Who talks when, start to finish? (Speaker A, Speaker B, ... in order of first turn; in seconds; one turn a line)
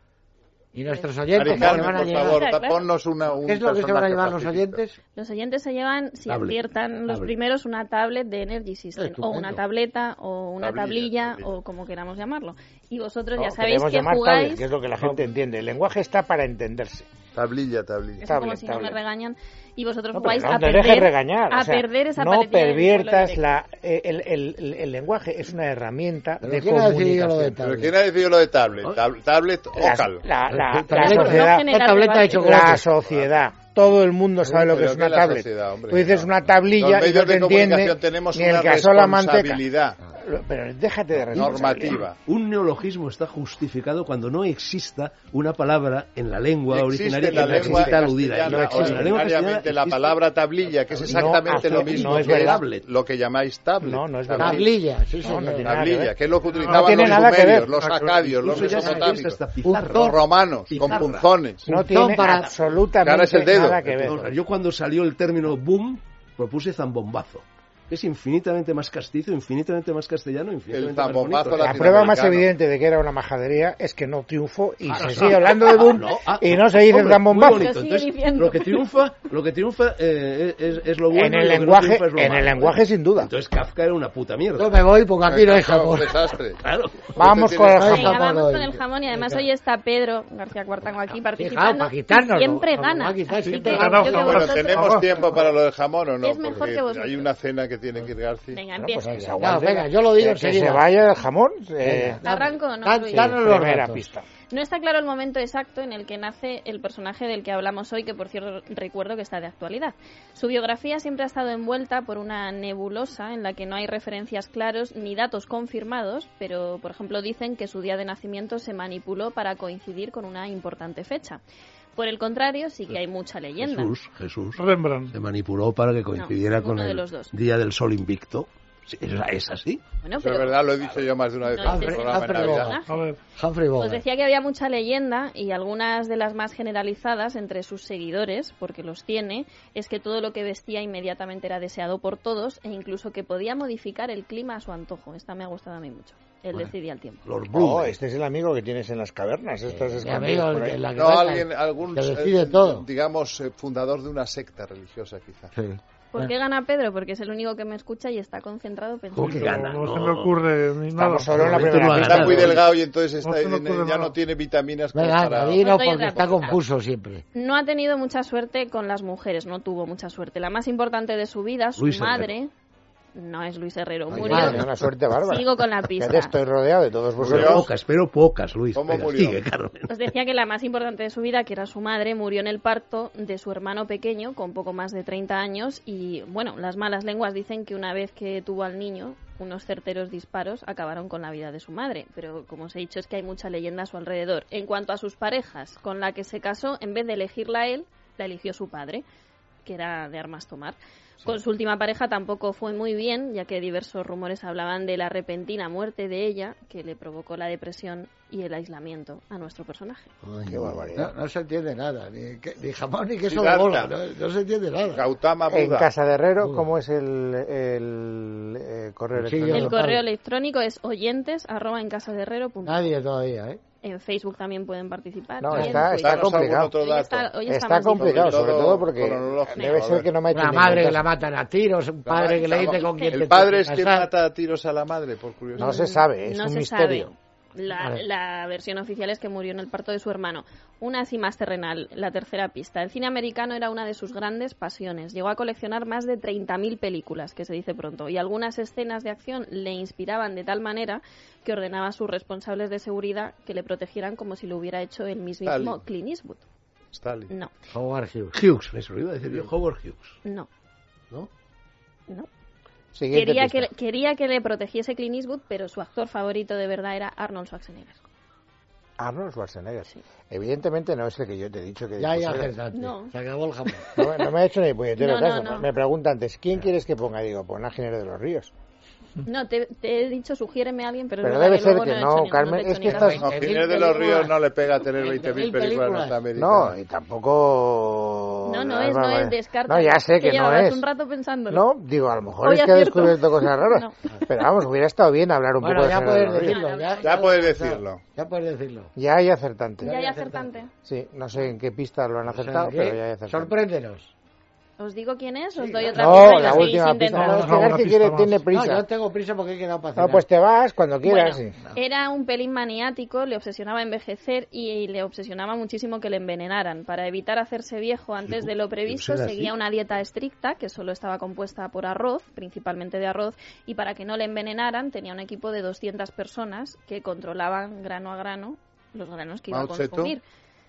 Speaker A: 0.7-2.4
Speaker B: 0.9-2.9
Speaker C: 1.3-4.8
Speaker A: 3.4-5.0
Speaker B: 5.2-14.7
Speaker D: 6.3-7.3
Speaker A: 8.9-9.6
Speaker C: 10.6-11.5
Speaker E: 13.3-17.1
Speaker C: 17.3-18.2
Speaker B: 18.2-23.4
Speaker E: 18.2-19.0
Speaker E: 20.1-27.6
Speaker A: 26.4-28.0
Speaker C: 27.6-30.2
Speaker E: 29.7-31.7
Speaker A: 30.5-32.9
Speaker B: 30.9-32.5
Speaker E: 32.3-39.6
Speaker C: 34.6-40.0
Speaker E: 40.1-42.0
Speaker C: 41.3-42.1
Speaker D: 41.4-41.7
Speaker D: 42.2-52.9
Speaker C: 46.7-54.7
Speaker E: 47.3-49.2
Speaker E: 51.0-52.6
Speaker E: 53.8-56.1
Speaker A: 54.4-55.7
Speaker C: 55.6-59.4
Speaker F: 56.5-58.9
Speaker E: 56.7-57.8
Speaker D: 58.4-61.3
Speaker A: 58.7-60.2
Speaker C: 59.9-61.6
Speaker A: 61.6-62.6
Speaker E: 61.6-64.3
Speaker C: 63.0-64.1
Speaker D: 63.9-72.2
Speaker C: 70.7-72.5
Speaker E: 71.5-77.7
Speaker D: 74.8-84.9
Speaker B: 77.5-79.0
Speaker E: 81.1-83.3
Speaker A: 84.6-86.2
Speaker C: 85.3-86.6
Speaker D: 86.5-87.2
Speaker E: 87.1-88.1
Speaker C: 87.2-88.2
Speaker A: 87.6-89.5
Speaker B: 87.9-94.9
Speaker A: 91.1-94.2
Speaker F: 93.4-95.5
Speaker C: 94.1-98.6
Speaker B: 96.2-97.3
Speaker B: 98.5-99.1
Speaker E: 98.8-102.2
Speaker A: 99.1-100.9
Speaker A: 101.8-104.1
Speaker B: 102.2-103.3
Speaker E: 103.1-104.2
Speaker B: 104.5-121.4
Speaker B: 122.0-124.0
Speaker D: 123.6-129.8
Speaker F: 124.5-125.1
Speaker B: 126.1-127.3
Speaker B: 130.0-130.9
Speaker C: 130.2-132.8
Speaker B: 131.5-133.1
Speaker A: 131.6-132.8
Speaker F: 132.9-133.2
Speaker A: 133.3-134.0
Speaker B: 133.8-147.2
Speaker D: 147.2-147.9
Speaker E: 147.5-150.8
Speaker A: 149.7-152.9
Speaker C: 150.9-155.5
Speaker A: 155.5-156.3
Speaker B: 156.1-159.3
Speaker D: 159.1-160.4
Speaker F: 159.2-161.7
Speaker E: 160.9-162.6
Speaker D: 161.2-162.6
Speaker C: 161.8-165.7
Speaker F: 163.2-164.2
Speaker A: 164.9-167.2
Speaker B: 165.6-166.6
Speaker B: 167.3-172.5
Speaker D: 171.8-172.3
Speaker B: 173.1-176.4
Speaker E: 174.1-177.7
Speaker A: 174.2-174.7
Speaker D: 174.2-174.9
Speaker D: 177.2-180.0
Speaker C: 177.2-177.7
Speaker C: 178.7-179.4
Speaker B: 179.9-199.0
Speaker B: 199.6-210.1
Speaker A: 210.2-215.0
Speaker E: 210.5-211.1
Speaker C: 213.2-214.0
Speaker C: 214.9-215.9
Speaker E: 215.5-219.8
Speaker A: 216.4-216.7
Speaker A: 219.2-220.0
Speaker B: 219.5-222.9
Speaker A: 222.6-223.6
Speaker B: 223.8-228.5
Speaker E: 225.4-226.8
Speaker A: 225.5-226.4
Speaker C: 225.8-227.3
Speaker E: 227.4-231.0
Speaker C: 227.9-230.1
Speaker B: 229.5-229.8
Speaker A: 230.3-234.1
Speaker C: 232.1-235.8
Speaker B: 232.9-233.3
Speaker B: 235.5-256.4
Speaker E: 235.6-237.1
Speaker A: 237.7-238.0
Speaker C: 255.4-255.8
Speaker C: 256.9-257.3
Speaker A: 257.7-258.4
Speaker D: 258.3-260.2
Speaker E: 262.9-263.7
Speaker B: 263.1-268.0
Speaker E: 269.0-272.5
Speaker A: 272.0-273.9
Speaker B: 272.7-273.1
Speaker B: 273.9-274.3
Speaker E: 273.9-278.5
Speaker B: 274.9-275.7
Speaker B: 279.2-283.1
Speaker E: 281.2-283.3
Speaker A: 282.8-284.4
Speaker C: 283.0-286.7
Speaker B: 283.9-284.1
Speaker A: 284.9-286.2
Speaker E: 286.4-290.8
Speaker B: 288.4-291.6
Speaker E: 291.5-296.6
Speaker B: 292.4-294.5
Speaker A: 295.6-298.9
Speaker B: 296.4-297.3
Speaker C: 297.0-298.0
Speaker E: 298.9-299.9
Speaker A: 299.8-300.6
Speaker B: 299.8-300.7
Speaker E: 300.8-303.5
Speaker A: 302.2-304.1
Speaker B: 304.8-307.3
Speaker A: 305.6-307.7
Speaker E: 305.9-308.8
Speaker F: 307.1-308.4
Speaker A: 308.5-310.2
Speaker E: 310.0-311.5
Speaker B: 311.0-330.2
Speaker D: 318.2-319.5
Speaker C: 329.5-330.1